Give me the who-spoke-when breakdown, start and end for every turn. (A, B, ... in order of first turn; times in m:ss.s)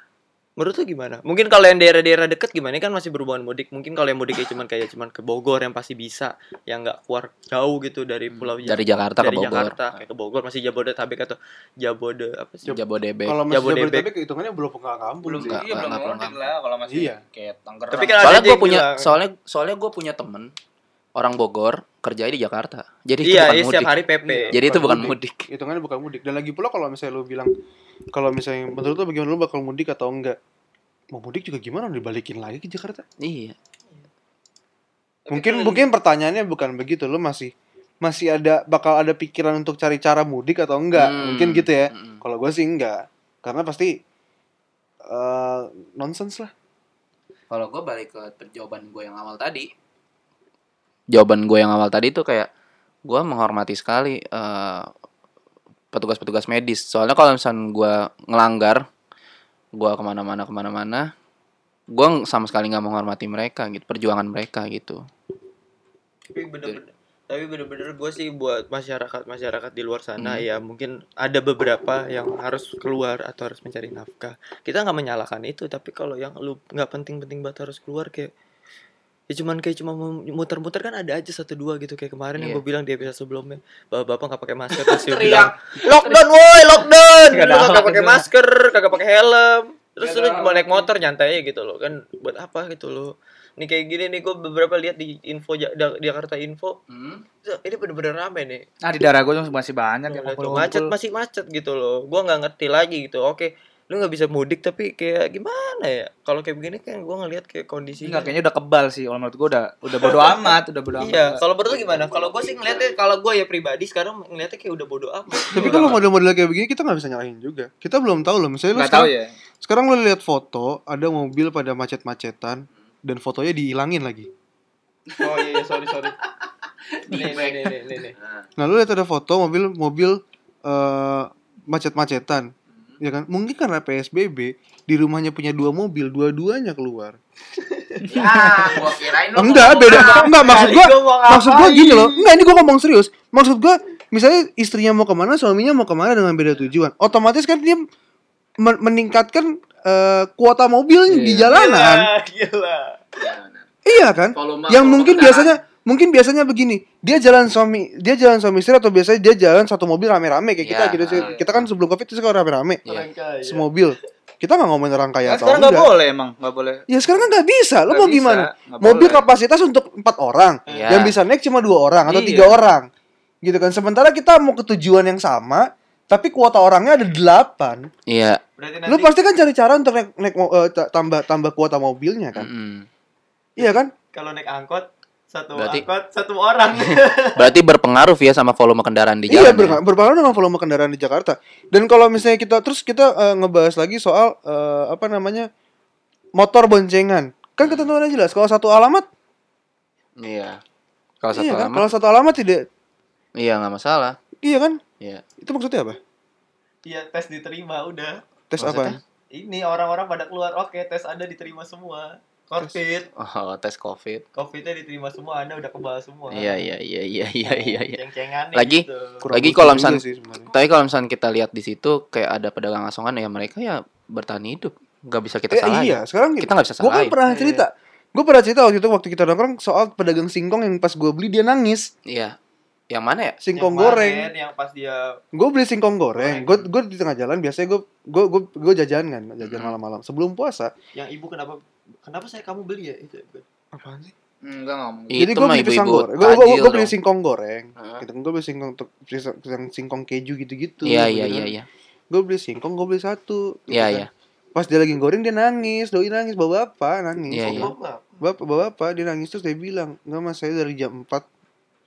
0:00.6-0:12.8 A
0:08.3-0:10.0 B
0:12.6-0:13.4 B
0:13.2-0:15.6 C
0:13.5-0:14.1 A
0:15.2-0:18.2 D
0:15.4-0:16.4 B
0:16.9-0:17.2 C
0:17.9-0:19.1 A
0:18.2-0:20.5 B
0:21.2-0:23.9 B
0:23.2-0:24.6 A
0:24.2-0:27.5 C
0:24.5-0:25.4 B
0:28.1-0:30.4 C
0:31.1-0:33.0 C
0:33.2-0:33.6 B
0:35.3-0:35.8 A
0:35.3-0:37.5 C
0:38.0-0:43.9 C
0:40.9-0:42.2 B
0:45.1-0:46.5 C
0:47.5-0:49.7 B
0:51.1-0:52.5 B
0:53.0-0:54.9 B
0:55.9-0:58.8 B
0:59.8-1:01.0 B
1:01.9-1:05.0 B
1:06.3-1:18.3 A
1:10.2-1:10.4 B
1:19.3-1:36.8 A
1:22.4-1:22.6 B
1:24.8-1:26.2 B
1:27.3-1:28.2 D
1:30.0-1:30.8 D
1:36.9-1:37.2 B
1:37.4-1:38.6 A
1:38.8-1:40.9 D
1:40.1-1:48.3 A
1:48.0-1:52.5 D
1:49.9-1:56.0 A
1:55.5-2:04.3 C
1:55.5-1:56.0 D
1:58.7-1:59.3 D
2:05.1-2:05.4 B
2:05.2-2:06.2 A
2:06.2-2:07.8 B
2:07.1-2:08.2 A
2:08.6-2:12.5 C
2:13.0-2:17.2 C
2:17.8-2:18.9 A
2:18.1-2:20.4 B
2:19.3-2:27.8 C
2:19.7-2:22.3 A
2:28.6-2:32.1 C
2:31.1-2:31.4 D
2:31.5-2:33.0 A
2:33.2-2:33.6 B
2:33.8-2:42.8 C
2:34.3-2:35.6 B
2:40.6-2:41.7 B
2:41.1-2:41.4 D
2:42.9-2:43.7 A
2:43.4-2:45.9 C
2:45.2-2:46.8 D
2:46.9-2:52.8 C
2:47.9-2:49.2 D
2:50.7-2:51.1 A
2:50.7-2:51.2 B
2:52.0-2:52.6 D
2:53.4-2:57.9 C
2:58.1-2:58.4 B
2:58.6-2:59.1 A
2:58.9-3:02.5 C
3:02.3-3:02.9 B
3:03.6-3:03.9 C
3:03.6-3:07.5 A
3:05.6-3:05.8 B
3:06.9-3:09.8 B
3:09.3-3:15.5 C
3:16.4-3:19.0 C
3:17.6-3:17.9 B
3:20.2-3:20.6 B
3:21.2-3:21.9 B
3:21.3-3:22.6 C
3:23.4-3:24.2 B
3:24.4-3:24.8 C
3:25.4-3:26.0 C
3:26.8-3:28.2 A
3:28.5-3:29.0 C
3:28.6-3:29.0 B
3:29.3-3:33.1 A
3:33.2-3:34.2 B
3:34.3-3:36.7 A
3:36.3-3:38.0 B
3:37.4-3:39.2 A
3:38.5-3:47.2 B
3:39.2-3:40.5 C
3:45.5-3:51.9 C
3:47.3-3:47.6 A
3:52.1-3:52.4 B
3:52.9-3:53.4 B
3:53.4-3:54.3 C
3:53.5-3:55.2 A
3:55.3-4:00.7 C
3:56.2-3:56.6 A
3:59.4-3:59.8 B
4:00.9-4:03.4 A
4:03.7-4:04.1 C
4:04.4-4:05.3 D
4:05.1-4:06.9 B
4:05.2-4:11.5 C
4:07.8-4:08.0 B
4:10.8-4:11.6 B
4:12.1-4:21.2 C
4:13.7-4:14.1 B
4:17.3-4:17.7 B
4:17.4-4:18.1 A